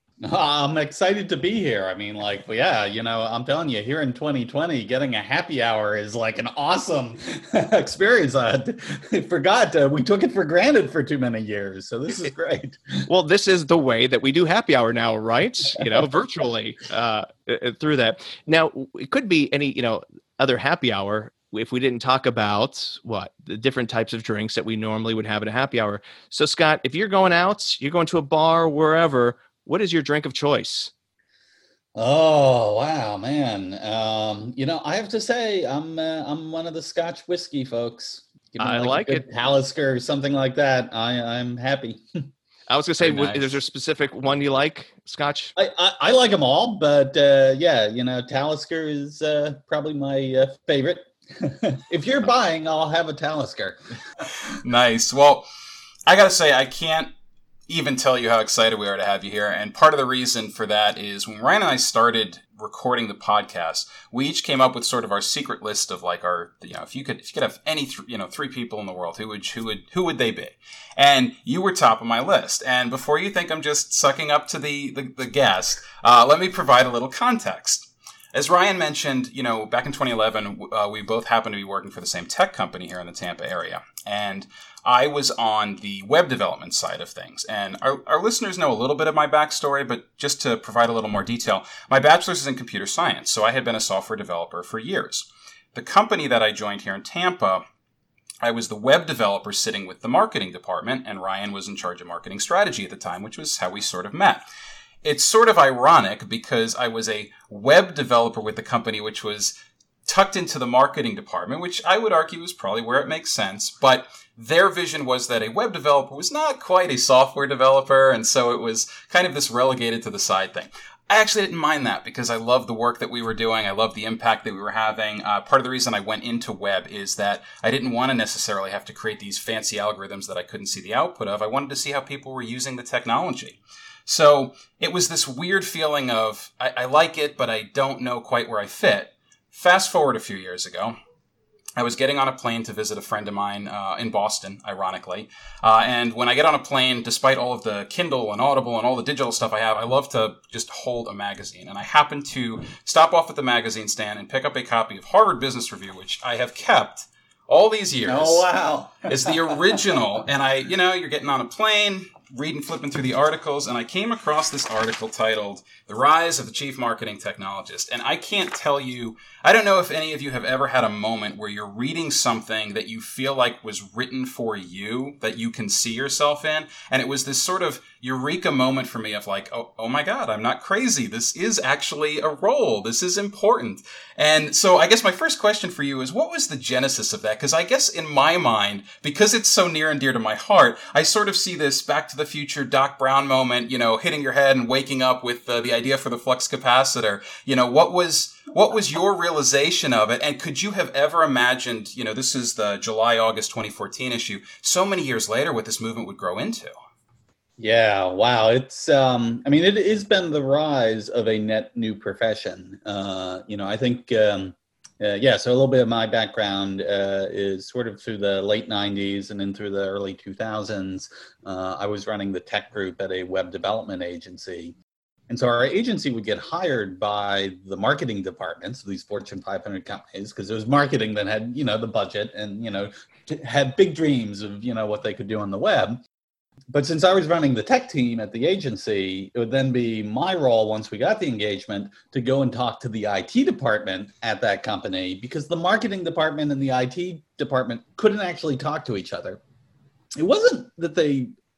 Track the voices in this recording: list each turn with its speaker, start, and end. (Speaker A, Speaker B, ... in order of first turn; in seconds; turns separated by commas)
Speaker A: 0.2-12.8, Speaker B: 13.1-30.9, Speaker A: 31.9-42.0, Speaker B: 38.6-39.2, Speaker B: 42.7-45.5, Speaker C: 43.0-43.6, Speaker A: 45.5-53.8, Speaker C: 54.5-55.5, Speaker C: 56.1-57.1, Speaker C: 57.7-97.6, Speaker C: 98.4-104.4, Speaker C: 105.0-109.5, Speaker C: 110.0-140.9, Speaker C: 141.8-158.4, Speaker A: 158.1-159.8, Speaker C: 159.1-206.7, Speaker A: 207.6-224.8, Speaker A: 225.3-236.0, Speaker A: 236.7-249.4, Speaker A: 250.2-251.3